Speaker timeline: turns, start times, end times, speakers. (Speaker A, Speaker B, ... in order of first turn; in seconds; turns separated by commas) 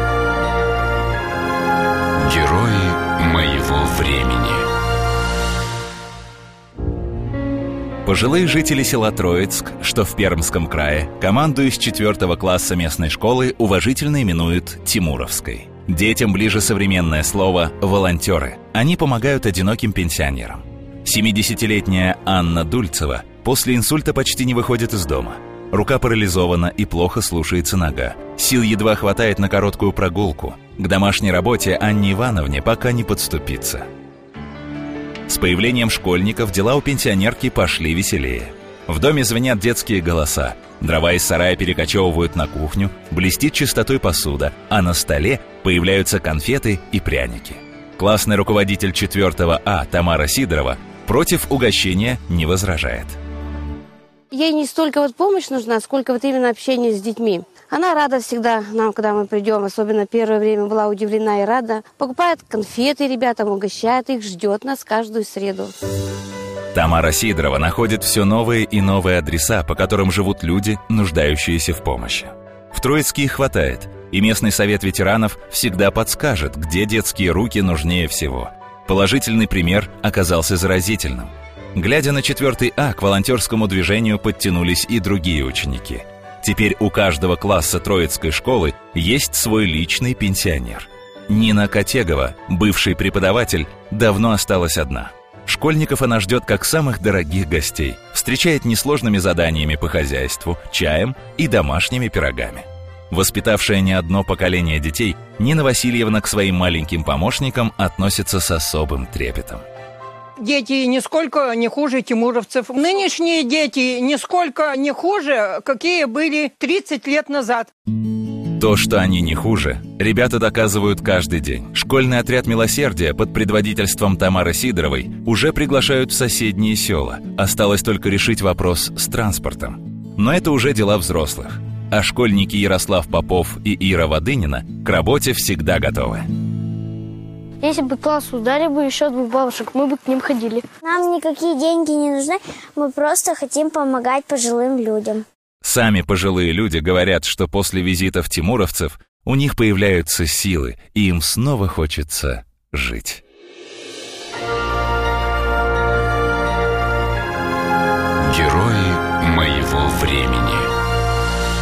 Speaker A: 2.2-4.7, Speaker B: 8.0-33.8, Speaker B: 35.3-53.2, Speaker C: 54.3-65.7, Speaker B: 66.7-109.6, Speaker D: 110.4-117.7, Speaker B: 118.5-136.2, Speaker E: 137.8-139.8, Speaker F: 140.8-145.2, Speaker B: 145.6-153.2, Speaker A: 158.2-160.7